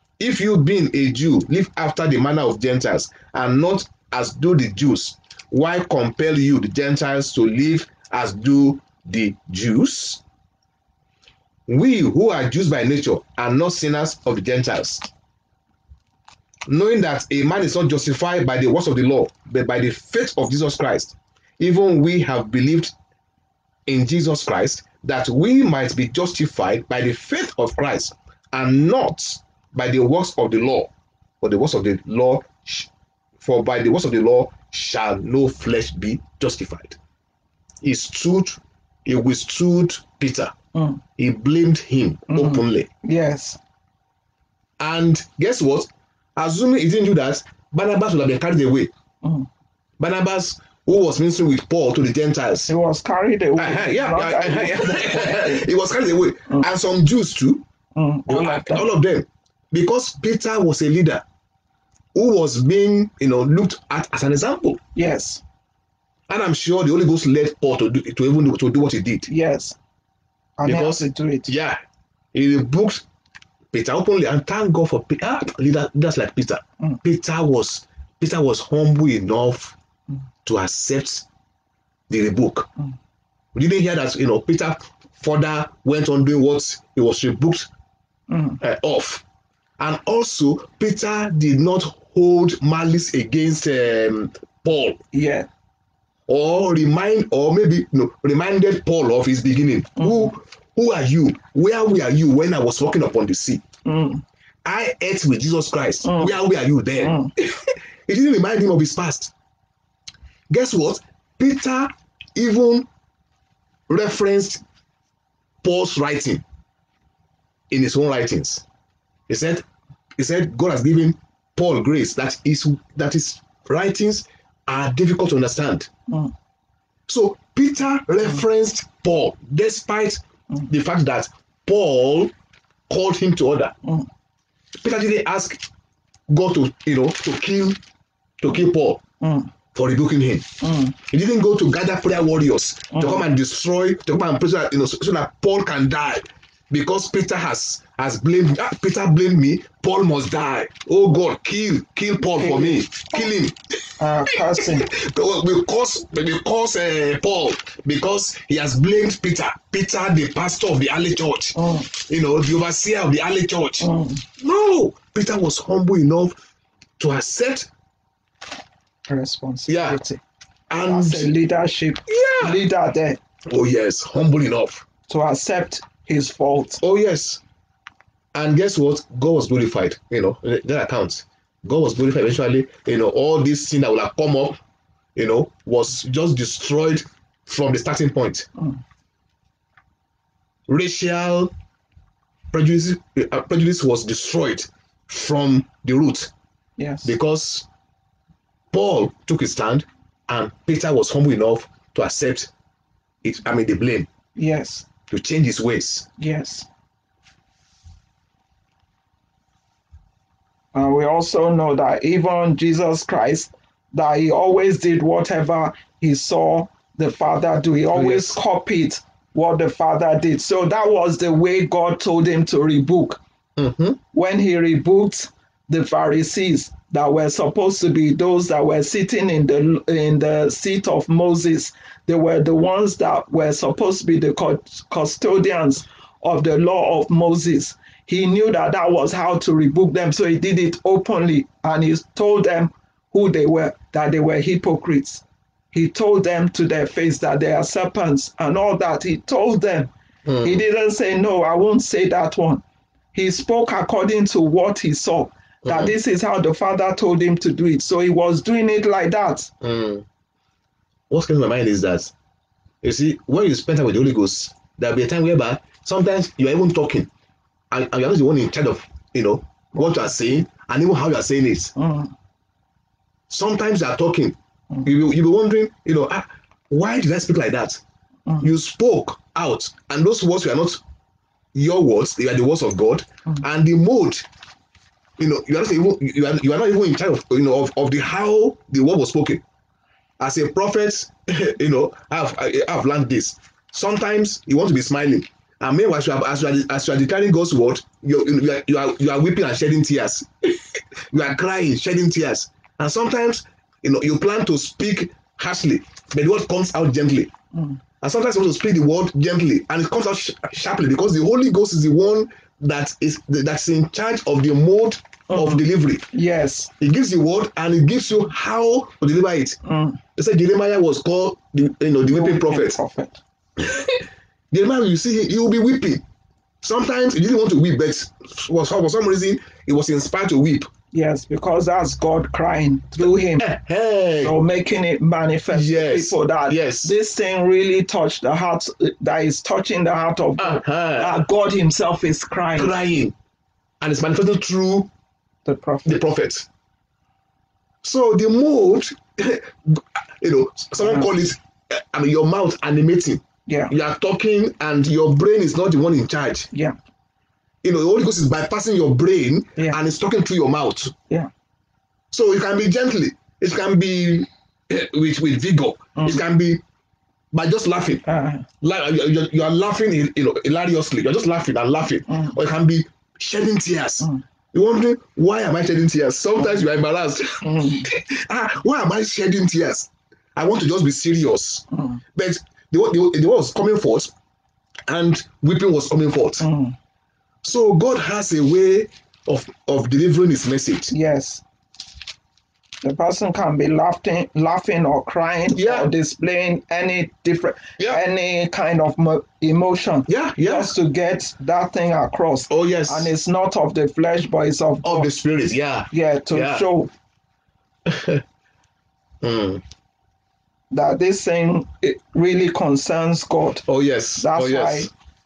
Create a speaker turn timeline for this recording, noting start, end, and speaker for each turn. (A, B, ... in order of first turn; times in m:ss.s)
0:00.2-0:10.2 A
0:11.7-0:15.1 A
0:16.7-0:22.9 A
0:23.9-0:30.9 A
0:31.4-0:37.0 A
0:37.8-0:40.5 A
0:40.7-0:41.0 B
0:41.2-0:42.9 A
0:42.3-0:43.6 B
0:44.8-0:48.9 A
0:49.2-0:49.5 B
0:50.0-0:52.7 A
0:52.7-0:55.7 B
0:53.6-0:57.6 A
0:58.0-0:58.9 B
0:58.3-1:01.2 A
1:02.1-1:04.8 A
1:04.9-1:05.4 B
1:06.3-1:09.3 A
1:09.3-1:09.8 B
1:10.6-1:11.5 B
1:10.6-1:11.8 A
1:12.3-1:13.0 A
1:13.7-1:19.8 A
1:20.4-1:21.3 A
1:22.1-1:22.7 A
1:23.5-1:27.7 A
1:28.3-1:28.6 B
1:28.6-1:29.2 A
1:29.8-1:35.0 A
1:35.1-1:35.5 B
1:36.3-1:43.6 A
1:40.0-1:40.3 B
1:43.8-1:44.2 B
1:44.6-1:49.3 A
1:46.0-1:46.3 B
1:47.0-1:47.3 B
1:50.5-1:52.9 A
1:53.9-1:54.6 A
1:55.6-1:56.4 A
1:57.7-1:58.6 A
1:59.3-1:59.6 A
2:00.2-2:05.9 A
2:07.1-2:12.3 A
2:12.9-2:13.7 A
2:14.8-2:15.6 A
2:16.3-2:17.8 A
2:18.4-2:19.0 A
2:19.2-2:19.5 B
2:19.7-2:46.4 A
2:20.6-2:21.0 B
2:22.9-2:23.2 B
2:32.3-2:33.3 B
2:34.0-2:34.9 B
2:41.6-2:41.9 B
2:43.8-2:44.2 B
2:47.0-2:47.7 A
2:49.1-2:50.2 B
2:49.7-2:50.0 A
2:50.7-2:51.3 A
2:50.8-2:53.2 B
2:52.1-2:52.6 A
2:53.5-2:54.8 A
2:55.1-2:56.8 B
2:56.8-2:57.4 A
2:58.3-3:04.6 A
3:05.1-3:08.5 A
3:10.7-3:11.5 A
3:12.5-3:16.3 A
3:16.8-3:17.1 B
3:17.0-3:17.7 A
3:18.7-3:22.5 A
3:23.2-3:24.1 A
3:24.4-3:24.9 B
3:25.1-3:26.1 A
3:26.2-3:26.7 B
3:30.7-3:43.2 B
3:37.9-3:38.4 A
3:43.6-3:44.0 A
3:44.1-4:09.9 B
4:10.2-4:10.6 A
4:10.4-4:12.6 B
4:13.1-4:19.5 B
4:15.6-4:15.9 A
4:19.6-4:20.0 A
4:21.1-4:22.1 A
4:22.8-4:27.1 A
4:27.7-4:31.7 A
4:31.8-4:32.1 B
4:33.3-4:37.8 A
4:38.4-4:40.8 A
4:41.5-4:44.2 A
4:45.2-4:49.4 A
4:50.2-5:07.3 A
5:07.5-5:07.8 B
5:08.0-5:16.1 A
5:15.3-5:16.7 B
5:16.8-5:19.6 A
5:19.6-5:20.0 B
5:20.2-5:22.8 A
5:22.1-5:23.2 B
5:23.6-5:26.0 A
5:26.6-5:30.7 A
5:30.9-5:33.5 B
5:33.0-5:34.4 A
5:34.2-5:42.7 B
5:35.5-5:36.9 A
5:40.4-5:41.3 A
5:42.6-5:43.1 A
5:43.8-5:44.9 A
5:45.4-5:46.0 B
5:45.8-5:46.5 A
5:47.8-5:56.5 A
5:50.8-5:51.1 B
5:53.5-5:53.7 B
5:57.6-6:00.9 A
6:02.1-6:06.6 A
6:07.3-6:08.0 A
6:08.0-6:08.5 B
6:08.6-6:24.1 A
6:12.1-6:12.4 B
6:17.4-6:17.9 B
6:21.7-6:22.0 B
6:24.9-6:26.4 A
6:26.4-6:26.8 B
6:27.4-6:30.9 A
6:30.9-6:31.4 B
6:32.8-6:45.1 B
6:35.5-6:35.9 A
6:40.1-6:40.7 A
6:42.5-6:43.1 A
6:44.8-6:46.6 A
6:45.9-6:46.9 B
6:47.8-6:48.2 A
6:49.2-6:49.6 A
6:50.7-6:53.6 B
6:53.7-6:54.9 A
6:54.2-6:54.9 B